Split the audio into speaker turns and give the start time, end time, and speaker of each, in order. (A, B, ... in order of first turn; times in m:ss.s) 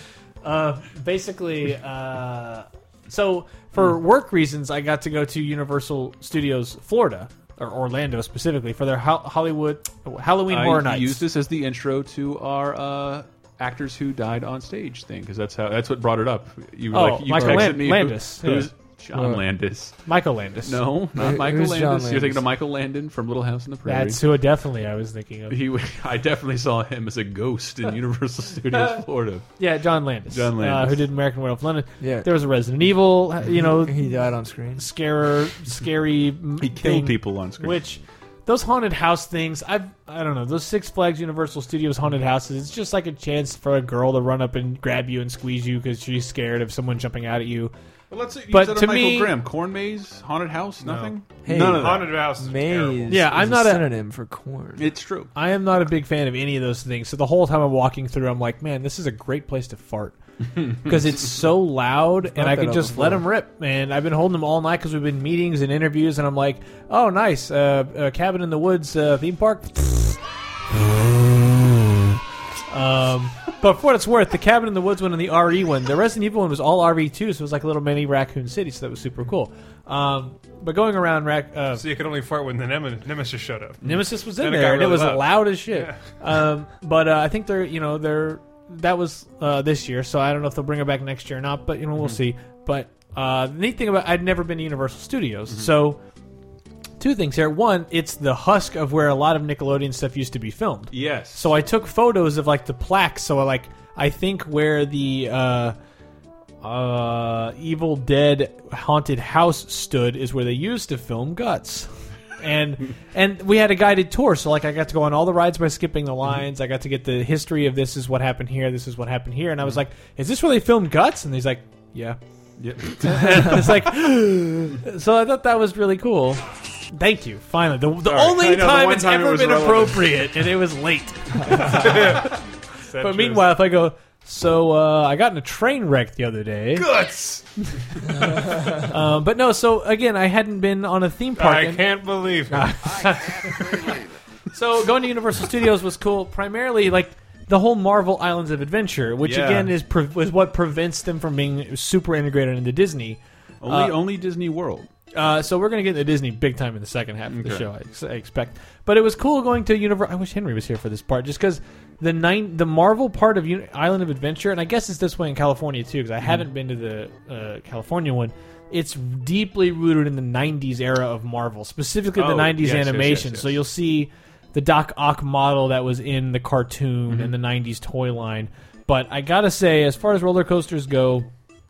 0:00.4-0:11.2 A
0:10.5-0:20.1 B
0:16.9-0:18.7 A
0:17.4-0:17.7 C
0:19.1-0:19.4 C
0:20.1-0:20.8 A
0:20.6-0:24.2 B
0:21.1-0:22.4 C
0:23.8-0:25.6 A
0:25.5-0:29.5 B
0:29.6-0:34.0 A
0:30.3-0:31.1 B
0:32.0-0:32.3 C
0:33.6-0:34.9 C
0:34.8-0:47.7 A
0:36.6-0:37.8 B
0:48.1-0:52.2 B
0:48.5-0:49.4 A
0:50.8-0:53.3 D
0:51.4-0:54.9 C
0:53.1-0:53.9 A
0:54.8-0:55.3 B
0:55.4-1:11.8 A
1:02.4-1:03.2 C
1:12.7-1:21.8 A
1:21.8-1:26.0 D
1:23.8-1:36.0 A
1:37.0-1:45.8 A
1:40.9-1:41.5 B
1:46.6-2:02.2 A
2:02.6-2:03.8 B
2:03.0-2:12.3 A
2:08.1-2:10.2 B
2:11.5-2:13.5 D
2:13.0-2:16.9 A
2:16.8-2:17.4 D
2:18.4-2:21.9 A
2:21.4-2:23.0 D
2:22.5-2:23.9 A
2:24.5-2:34.0 A
2:29.2-2:29.7 B
2:33.6-2:34.9 B
2:35.2-3:01.3 A
2:37.3-2:37.7 B
2:52.2-2:53.6 B
2:57.1-2:57.3 B